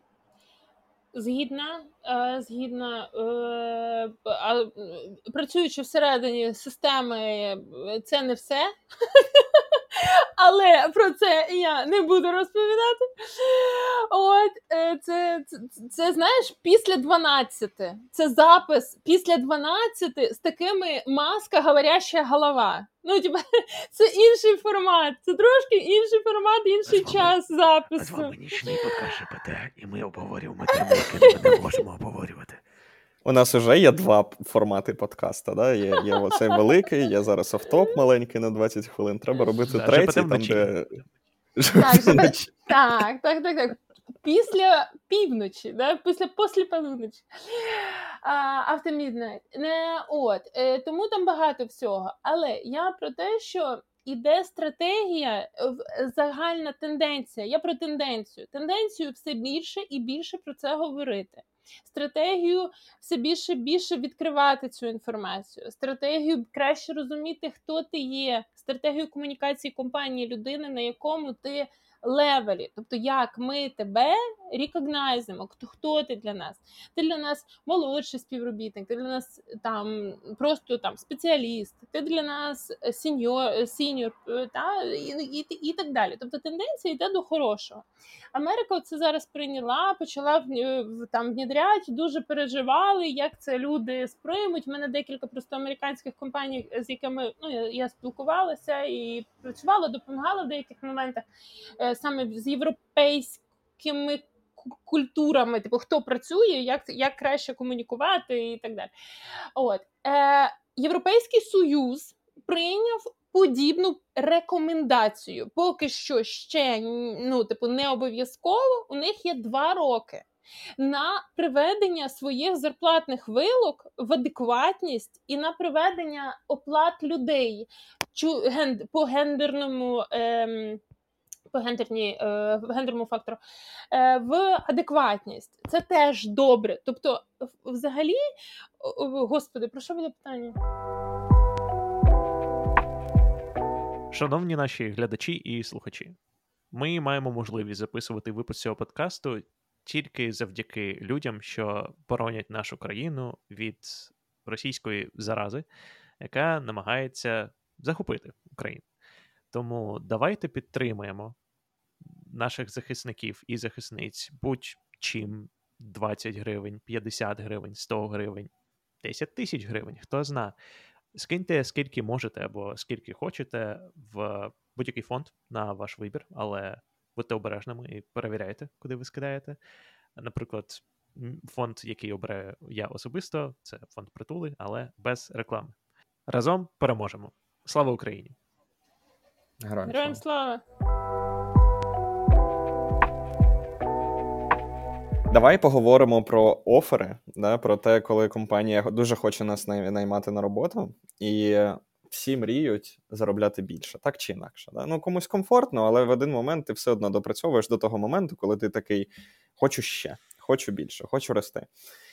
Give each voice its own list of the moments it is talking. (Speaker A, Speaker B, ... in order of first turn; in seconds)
Speaker A: 1.1-29.0, 30.7-31.8, 41.8-101.2, 101.8-108.9, 109.5-120.2, 120.8-130.8, 131.5-138.2, 138.8-140.6, 189.8-190.6
Speaker B: 26.9-27.3, 27.9-32.6, 39.6-40.7, 144.1-146.2, 146.7-155.6, 156.2-158.8, 159.5-161.3, 162.2-168.5, 169.0-170.5, 171.1-179.6, 180.2-185.7, 186.3-188.3
Speaker C: 33.2-40.9, 41.6-42.5, 189.6-190.2, 195.3-211.7